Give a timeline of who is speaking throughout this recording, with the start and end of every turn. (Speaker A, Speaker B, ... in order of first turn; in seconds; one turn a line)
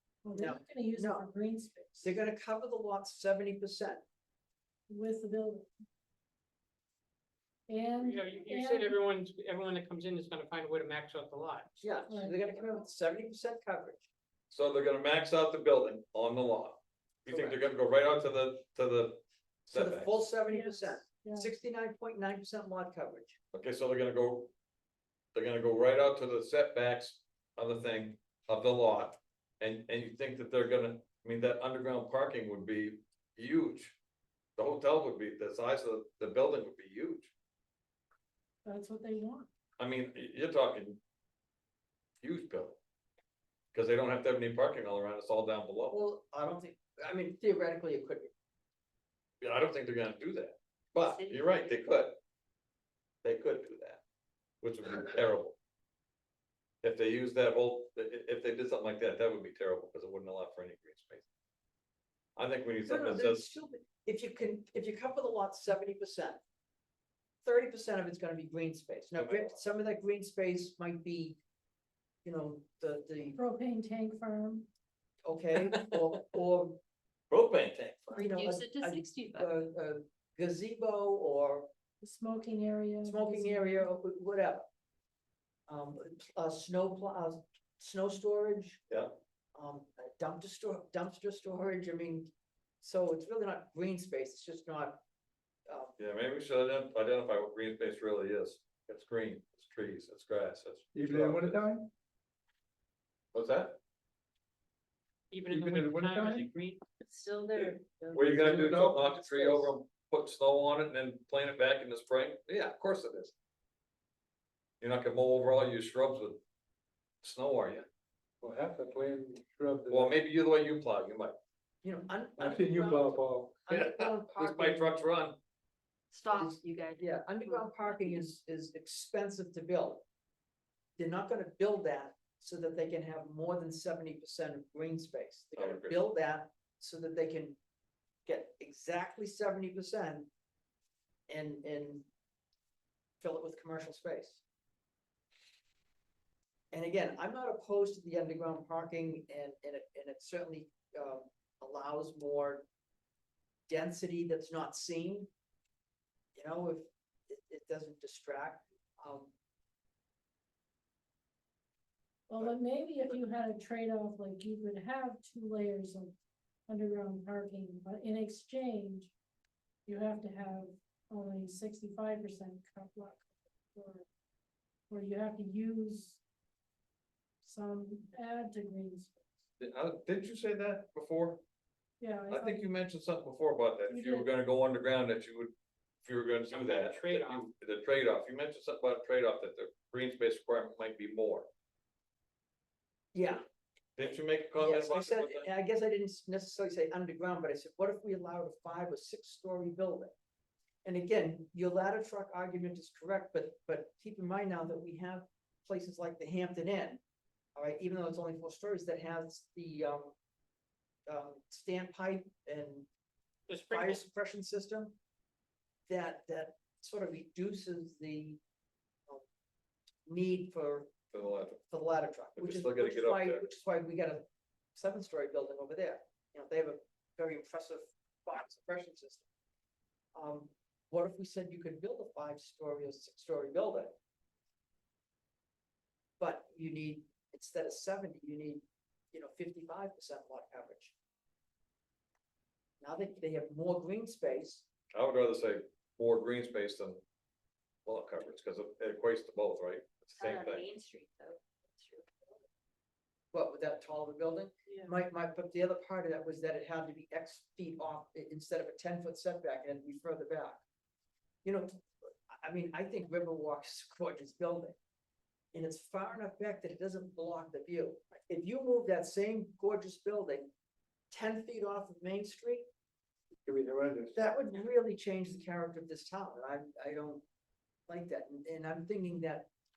Speaker A: 0.2-2.1
Speaker B: 0.3-1.3
Speaker B: 1.9-4.0
Speaker A: 4.9-5.7
Speaker A: 7.7-9.0
Speaker C: 8.0-12.0
Speaker B: 11.8-14.0
Speaker A: 12.1-12.4
Speaker D: 14.5-20.3
Speaker B: 17.2-17.6
Speaker B: 19.7-23.4
Speaker A: 20.5-21.5
Speaker D: 23.5-24.5
Speaker D: 25.3-34.0
Speaker D: 34.6-37.3
Speaker A: 38.6-39.5
Speaker D: 39.8-41.0
Speaker D: 42.2-42.8
Speaker D: 43.7-45.9
Speaker B: 45.9-48.3
Speaker D: 49.4-52.2
Speaker E: 51.0-51.8
Speaker D: 53.2-54.0
Speaker D: 54.6-55.5
Speaker D: 56.8-61.2
Speaker D: 62.4-63.4
Speaker B: 62.8-66.4
Speaker B: 67.4-71.4
Speaker D: 69.2-69.5
Speaker B: 72.2-73.4
Speaker A: 73.3-74.7
Speaker B: 75.2-76.8
Speaker D: 77.3-78.2
Speaker E: 78.1-79.5
Speaker B: 78.1-81.7
Speaker A: 82.0-83.9
Speaker B: 83.0-84.7
Speaker B: 85.7-88.8
Speaker B: 89.5-95.0
Speaker B: 95.7-95.9
Speaker D: 96.0-101.6
Speaker F: 100.9-101.9
Speaker D: 103.3-103.8
Speaker C: 105.3-106.8
Speaker F: 105.5-106.5
Speaker F: 107.5-109.7
Speaker D: 108.1-113.3
Speaker D: 114.8-116.4
Speaker D: 117.2-117.8
Speaker F: 118.4-120.2
Speaker D: 119.9-121.3
Speaker B: 121.8-125.0
Speaker F: 122.4-123.7
Speaker D: 123.7-125.4
Speaker E: 126.1-128.3
Speaker B: 126.3-130.0
Speaker B: 131.0-137.6
Speaker D: 135.6-136.0
Speaker B: 138.2-140.3
Speaker B: 141.3-142.1
Speaker B: 143.2-144.4
Speaker B: 146.7-152.7
Speaker B: 153.7-155.3
Speaker B: 156.3-159.3
Speaker A: 162.3-166.2
Speaker A: 166.7-169.1
Speaker A: 169.8-174.1
Speaker A: 174.9-176.2
Speaker A: 177.4-179.2
Speaker D: 179.6-181.4
Speaker A: 182.0-182.7
Speaker D: 182.3-185.5
Speaker A: 183.9-184.3
Speaker D: 186.0-191.5
Speaker C: 186.5-187.4
Speaker B: 193.1-193.4
Speaker D: 193.9-195.5
Speaker B: 194.1-200.1
Speaker B: 200.8-207.0
Speaker B: 207.6-210.1
Speaker B: 211.1-212.9
Speaker C: 213.5-214.0
Speaker B: 213.5-214.9
Speaker B: 215.9-218.4
Speaker B: 220.1-220.9
Speaker D: 221.1-221.6
Speaker B: 221.7-224.2
Speaker D: 222.3-223.4
Speaker B: 224.7-229.2
Speaker B: 230.1-233.9
Speaker B: 236.2-240.9
Speaker B: 242.8-244.7
Speaker D: 244.9-247.0
Speaker D: 247.8-250.7
Speaker E: 250.2-252.4
Speaker B: 253.3-260.6
Speaker B: 261.4-264.8
Speaker B: 265.5-270.5
Speaker B: 271.1-272.6
Speaker F: 273.4-274.1
Speaker B: 274.1-277.2
Speaker B: 277.9-279.5